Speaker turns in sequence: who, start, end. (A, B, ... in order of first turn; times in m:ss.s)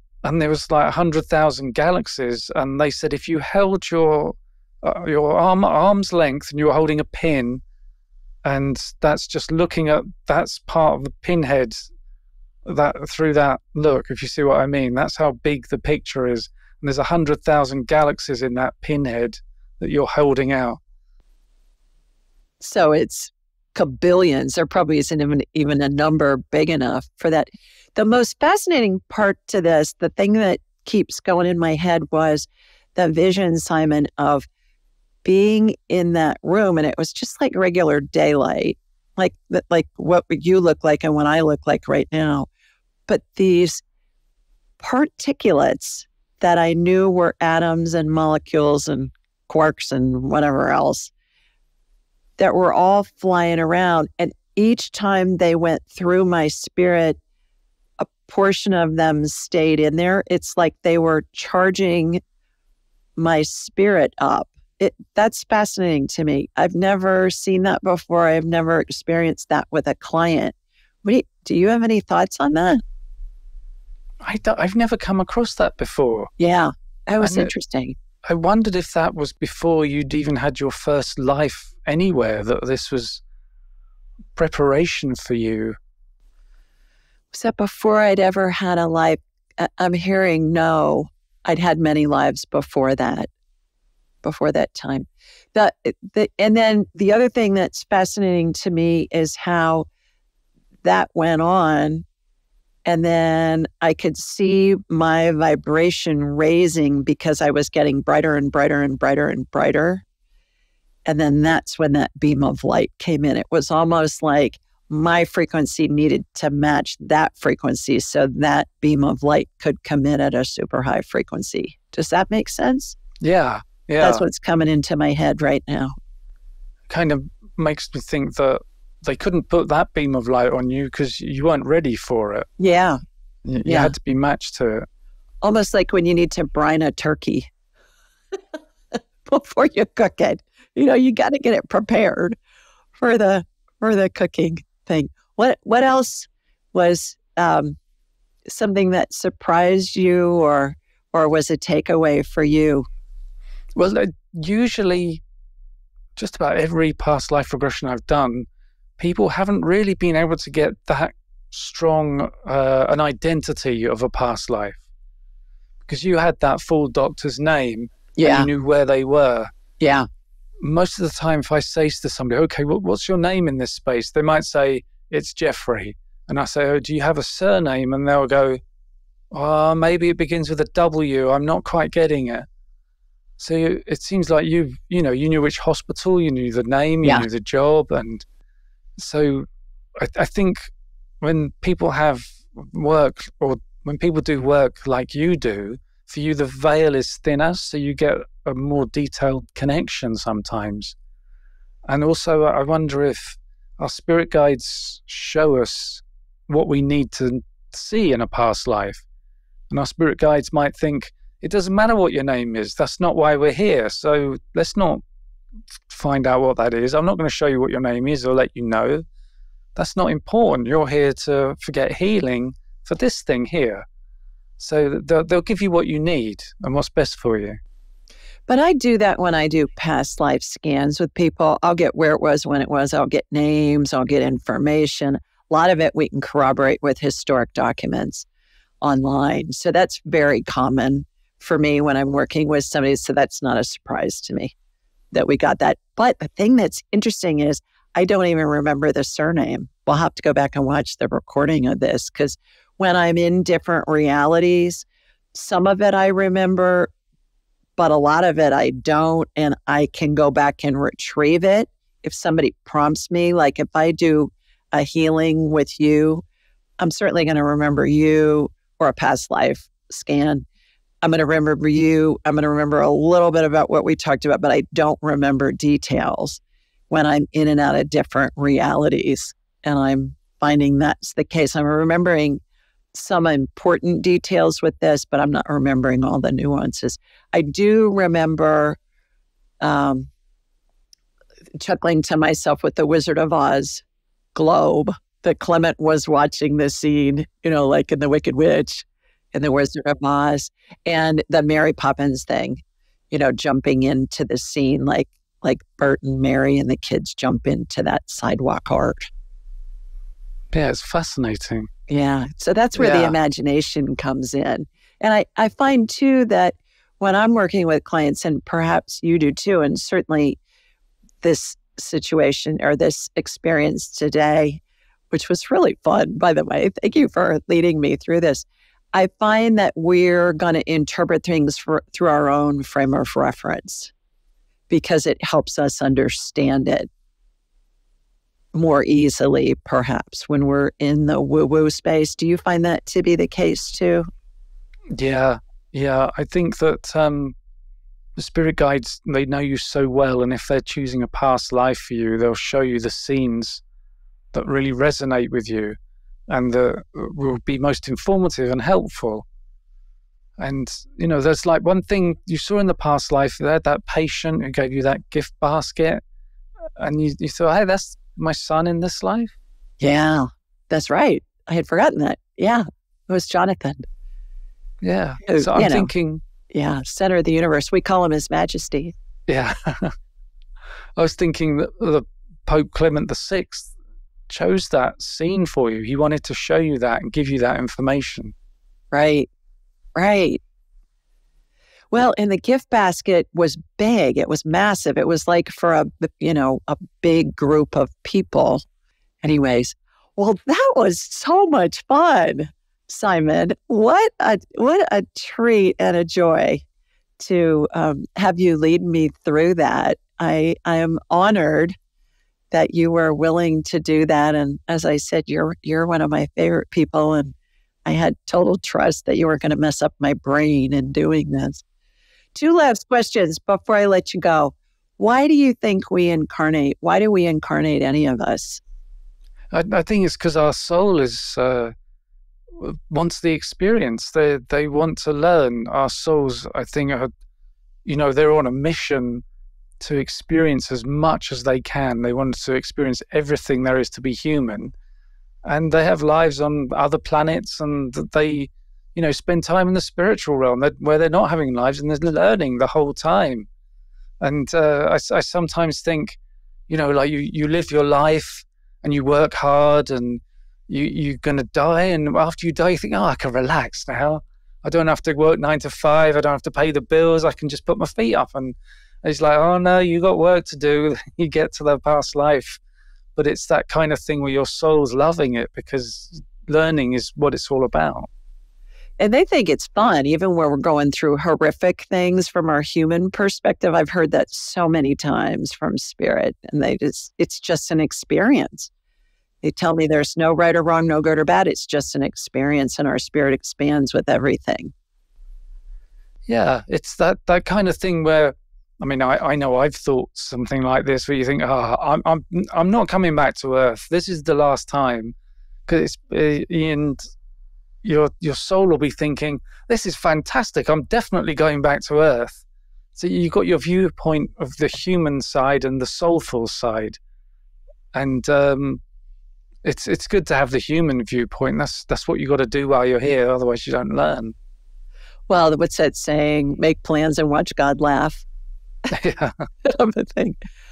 0:00.2-0:07.6 A
0:08.4-0:11.9 A
0:12.7-0:20.8 A
0:22.6-0:34.5 B
0:35.2-0:42.5 B
0:43.1-0:43.8 B
0:44.8-0:51.1 B
0:52.4-0:57.2 B
0:58.0-1:02.2 B
1:03.2-1:12.8 B
1:14.2-1:16.3 A
1:16.4-1:18.0 B
1:17.2-1:17.5 A
1:18.3-1:23.2 A
1:24.4-1:25.8 A
1:27.3-1:33.3 B
1:34.2-1:39.9 B
1:40.8-1:42.0 B
1:42.9-1:50.0 B
1:51.1-2:03.0 B
2:03.2-2:04.2 A
2:04.0-2:05.9 B
2:06.9-2:12.5 A
2:12.6-2:13.0 B
2:13.5-2:14.9 A
2:13.6-2:13.9 B
2:15.4-2:17.5 B
2:19.3-2:22.4 B
2:23.0-2:27.8 B
2:28.5-2:32.9 B
2:33.8-2:35.2 A
2:36.2-2:38.5 A
2:39.0-2:44.8 A
2:45.9-2:49.5 A
2:48.2-2:48.5 B
2:49.8-2:50.1 B
2:50.6-2:58.6 A
2:59.3-3:02.5 A
3:03.4-3:08.3 A
3:09.0-3:09.5 A
3:10.0-3:10.7 A
3:11.2-3:21.0 A
3:21.9-3:29.0 A
3:29.7-3:35.0 A
3:35.9-3:39.0 A
3:39.8-3:43.8 A
3:44.6-3:47.6 A
3:48.5-3:58.3 B
3:58.8-4:04.5 B
4:05.1-4:16.9 B
4:17.8-4:26.2 B
4:26.8-4:30.4 B
4:31.0-4:42.4 B
4:42.9-4:48.8 B
4:49.6-4:50.1 B
4:51.6-4:53.8 B
4:54.4-5:09.0 B
5:10.5-5:11.7 A
5:11.9-5:20.4 B
5:12.8-5:13.2 A
5:21.2-5:33.9 B
5:34.7-5:36.9 B
5:38.5-5:44.1 B
5:44.9-5:47.4 A
5:48.2-5:53.6 A
5:54.3-5:55.8 A
5:56.3-5:59.3 A
6:00.4-6:06.0 A
6:06.8-6:09.3 A
6:09.8-6:13.8 B
6:14.8-6:16.2 A
6:15.3-6:15.9 B
6:16.5-6:18.9 B
6:19.3-6:19.9 A
6:21.0-6:23.7 A
6:24.3-6:28.3 A
6:28.9-6:29.3 B
6:30.0-6:30.4 B
6:31.9-6:38.6 B
6:39.2-6:46.6 B
6:47.2-6:51.8 B
6:52.5-6:57.3 B
6:57.9-7:01.6 B
7:02.3-7:08.6 B
7:09.5-7:11.7 A
7:12.6-7:17.1 A
7:17.8-7:19.2 A
7:19.8-7:24.7 A
7:25.4-7:33.5 A
7:34.2-7:36.2 A
7:36.7-7:52.6 A
7:53.2-7:58.1 A
7:59.0-8:08.7 B
8:09.4-8:14.7 B
8:16.3-8:25.2 A
8:25.7-8:27.0 A
8:27.8-8:32.4 A
8:33.0-8:37.0 A
8:37.9-8:38.8 A
8:39.6-8:44.4 A
8:45.3-8:48.2 B
8:48.9-8:49.4 A
8:49.6-8:50.4 B